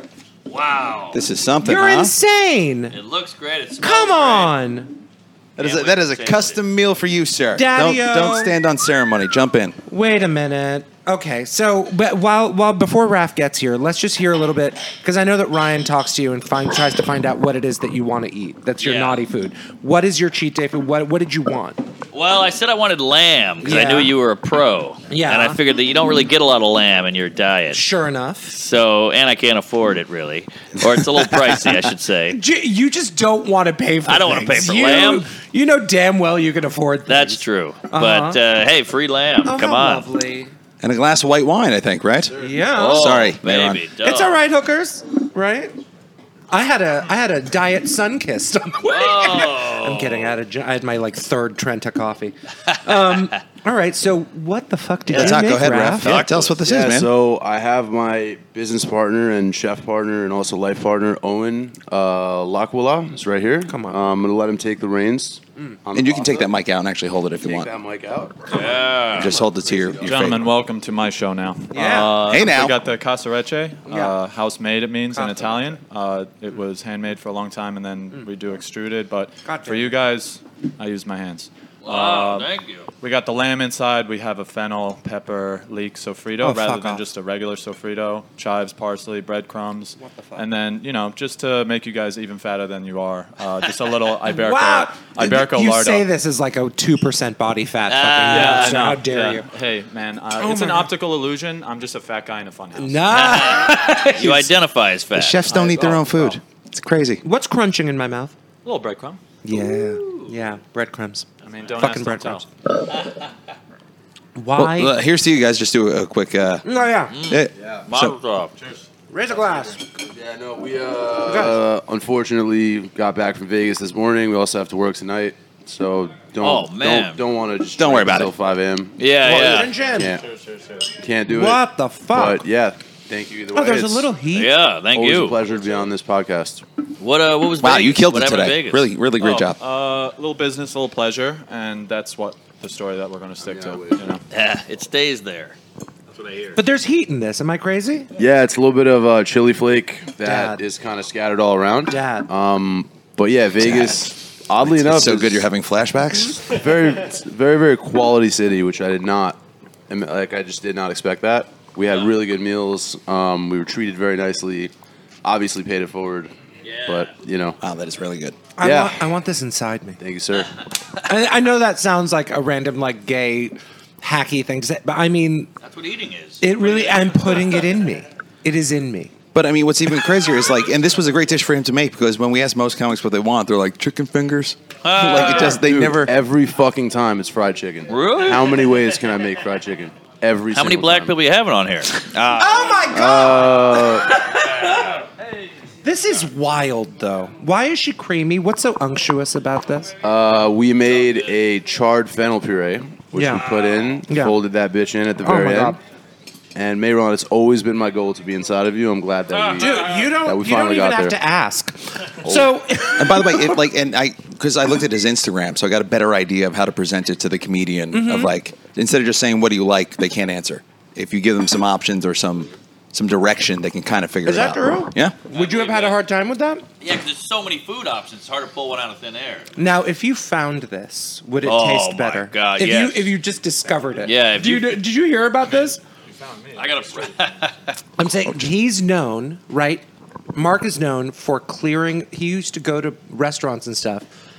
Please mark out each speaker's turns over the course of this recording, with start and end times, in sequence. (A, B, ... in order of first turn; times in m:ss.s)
0:00.5-0:01.2 A
0:01.1-0:02.2 B
0:01.6-0:03.0 C
0:02.9-0:04.5 A
0:03.8-0:05.0 C
0:05.6-0:09.8 B
0:05.6-0:06.6 A
0:07.5-0:08.5 C
0:09.9-0:21.8 C
0:18.8-0:19.2 A
0:22.1-0:27.8 A
0:23.6-0:24.1 C
0:25.1-0:25.6 C
0:27.7-0:28.5 C
0:28.5-0:32.4 A
0:32.3-0:38.4 C
0:34.0-0:35.3 A
0:37.1-0:40.1 A
0:39.4-0:40.5 C
0:40.8-0:43.8 B
0:42.3-0:42.7 D
0:42.4-0:43.3 C
0:42.7-0:44.4 A
0:44.0-0:45.8 C
0:46.5-0:56.2 C
0:48.8-0:50.4 A
0:55.1-0:56.6 A
0:55.1-0:57.1 B
0:56.6-1:06.5 D
1:03.7-1:04.0 C
1:05.9-1:07.7 B
1:07.4-1:10.5 D
1:08.5-1:09.4 A
1:09.2-1:10.5 B
1:10.0-1:36.1 E
1:11.7-1:12.3 C
1:12.2-1:12.8 B
1:13.9-1:14.2 C
1:15.1-1:15.8 C
1:19.4-1:20.0 C
1:21.8-1:22.9 A
1:26.4-1:27.1 C
1:30.0-1:30.5 C
1:34.2-1:39.5 C
1:37.9-1:38.9 A
1:38.3-1:43.4 E
1:40.4-1:40.9 C
1:42.8-1:44.5 C
1:43.1-1:46.0 A
1:45.2-1:47.2 B
1:45.5-1:46.3 E
1:47.2-1:48.4 C
1:48.6-1:49.2 E
1:49.4-1:52.5 C
1:51.4-1:52.5 E
1:54.4-1:54.9 C
1:54.6-1:56.7 B
1:56.6-1:57.2 C
1:57.1-1:58.5 A
1:57.3-1:58.2 B
1:57.6-1:57.9 D
1:58.6-1:59.8 E
1:59.1-1:59.8 C
2:00.0-2:09.0 D
2:01.3-2:01.6 C
2:06.4-2:07.2 A
2:07.8-2:08.3 B
2:09.0-2:09.7 A
2:09.2-2:10.2 C
2:09.4-2:11.0 E
2:10.0-2:10.2 D
2:11.0-2:14.1 D
2:11.3-2:12.4 C
2:13.5-2:14.5 C
2:14.3-2:15.4 A
2:14.9-2:16.6 D
2:17.0-2:18.9 A
2:17.6-2:19.6 B
2:19.2-2:24.2 E
2:23.4-2:24.2 D
2:24.3-2:25.6 A
2:26.2-2:26.6 E
2:26.6-2:28.1 C
2:28.2-2:35.5 D
2:30.2-2:30.6 C
2:31.9-2:32.3 C
2:33.6-2:34.1 B
2:34.6-2:36.4 B
2:36.4-2:44.7 D
2:45.2-2:46.3 D
2:46.6-2:47.1 A
2:46.8-2:47.6 D
2:47.6-2:48.5 B
2:48.6-2:50.0 C
2:48.6-2:49.0 D
2:50.0-2:50.6 D
2:51.0-2:55.5 C
2:55.6-2:57.6 A
2:56.4-2:59.1 C
2:59.3-3:06.1 B
3:04.8-3:05.6 A
3:05.3-3:11.2 D
3:07.9-3:08.7 A
3:10.5-3:12.8 A
3:12.4-3:15.0 C
3:13.0-3:14.2 D
3:15.8-3:19.9 C
3:20.0-3:25.8 D
3:23.1-3:23.5 C
3:23.4-3:24.0 A
3:24.1-3:24.4 C
3:25.2-3:25.8 C
3:26.6-3:31.2 D
3:29.3-3:29.8 A
3:29.6-3:33.6 C
3:32.2-3:32.5 D
3:33.0-3:45.2 B
3:37.9-3:38.3 C
3:44.2-3:46.6 C
3:45.3-3:46.0 A
3:46.8-3:49.5 A
3:49.6-3:55.8 C
3:51.4-3:53.2 A
3:54.0-3:54.8 A
3:55.4-3:57.3 E
3:56.6-3:57.8 A
3:58.0-4:04.1 C